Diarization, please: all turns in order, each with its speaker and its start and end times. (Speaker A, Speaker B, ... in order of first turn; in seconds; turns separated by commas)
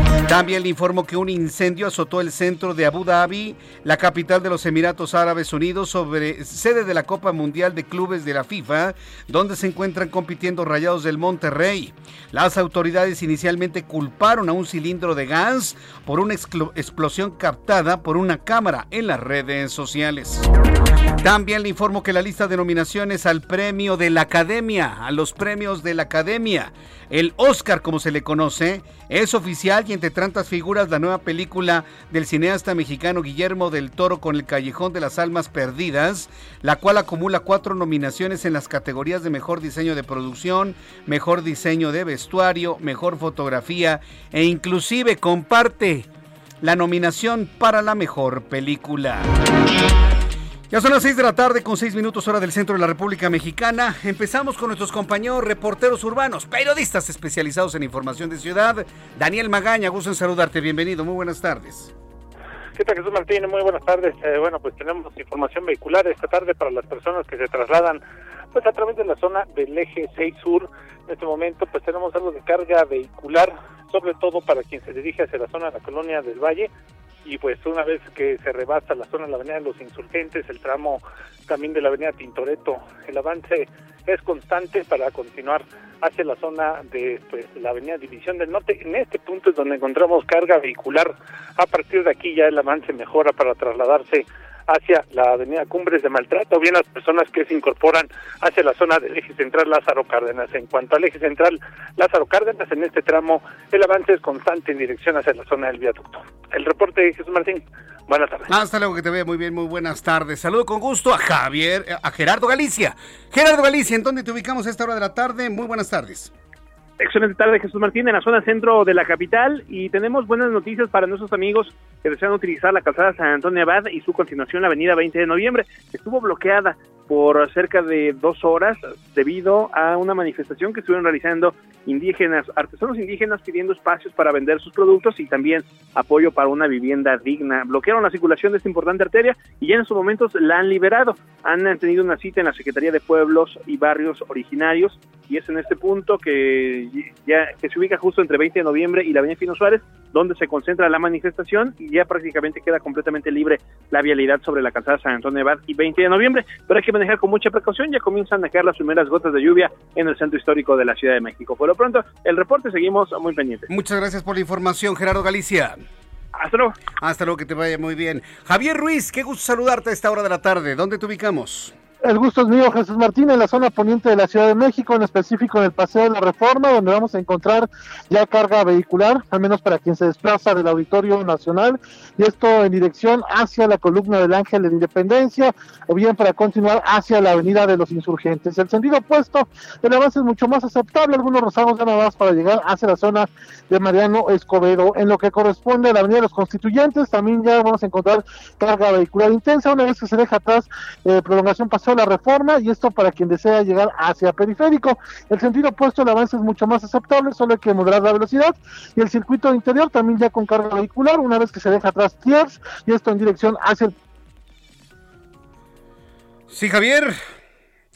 Speaker A: 0.2-20.5, Speaker A: 21.2-46.1, Speaker A: 46.6-49.3, Speaker A: 50.7-61.9, Speaker B: 62.8-68.0, Speaker B: 68.5-76.7, Speaker B: 77.2-108.5, Speaker A: 108.5-116.3, Speaker C: 117.0-163.7, Speaker A: 163.7-165.8, Speaker C: 166.4-166.8, Speaker A: 167.0-171.7, Speaker D: 172.0-213.9, Speaker A: 216.5-217.2